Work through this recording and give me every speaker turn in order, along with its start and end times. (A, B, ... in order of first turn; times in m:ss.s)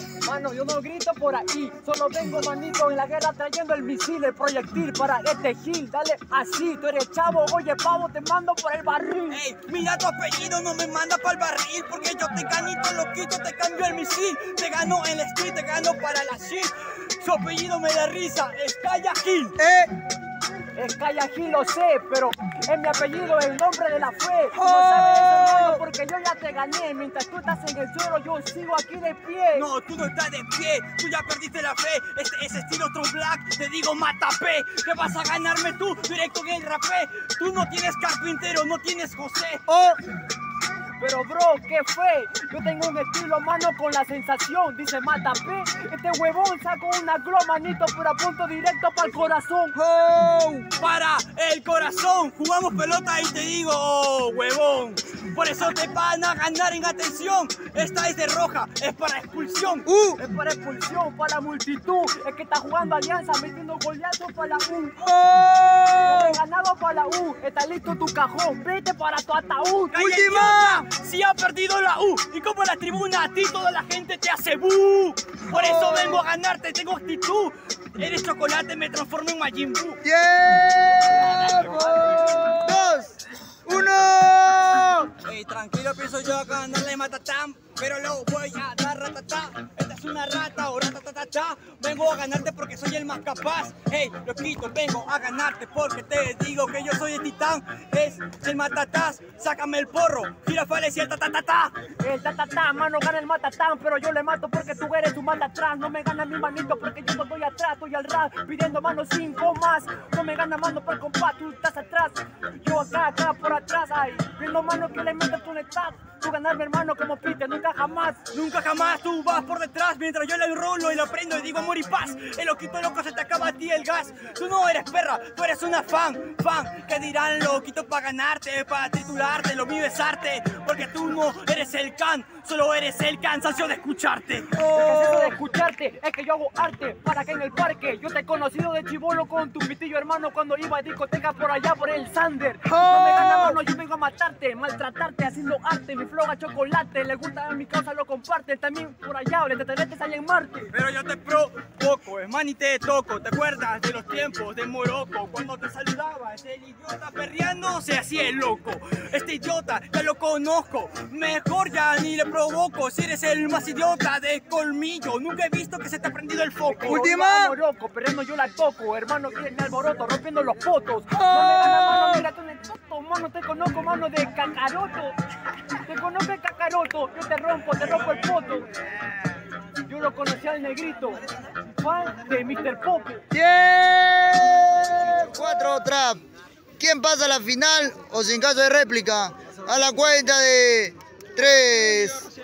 0:00.2-0:09.4 A
0:09.3-0:19.6 B
0:19.6-0:19.9 C
0:20.7-0:29.7 A
0:24.5-0:25.8 C
0:29.5-0:39.6 B
0:39.7-0:40.0 C
0:41.0-0:49.8 A
0:49.7-0:50.7 C
0:50.8-0:59.9 B
0:59.9-1:00.2 C
1:00.2-1:05.0 A
1:05.0-1:06.4 C
1:06.0-1:10.1 A
1:09.9-1:20.0 B
1:10.0-1:10.8 C
1:15.5-1:16.2 C
1:20.0-1:23.1 C
1:20.9-1:22.5 A
1:21.6-1:22.0 B
1:23.6-1:25.1 C
1:25.2-1:41.7 B
1:42.0-1:58.3 A
1:58.3-2:14.6 B
2:14.6-2:15.3 C
2:14.6-2:30.7 A
2:22.6-2:23.6 C
2:30.7-2:47.0 B
2:46.7-2:55.2 A
2:46.9-2:47.5 C
2:51.2-2:52.2 C
2:55.8-2:58.7 A
2:59.9-3:01.2 A
3:01.8-3:03.2 A
3:03.3-3:06.2 C
3:06.8-3:12.3 C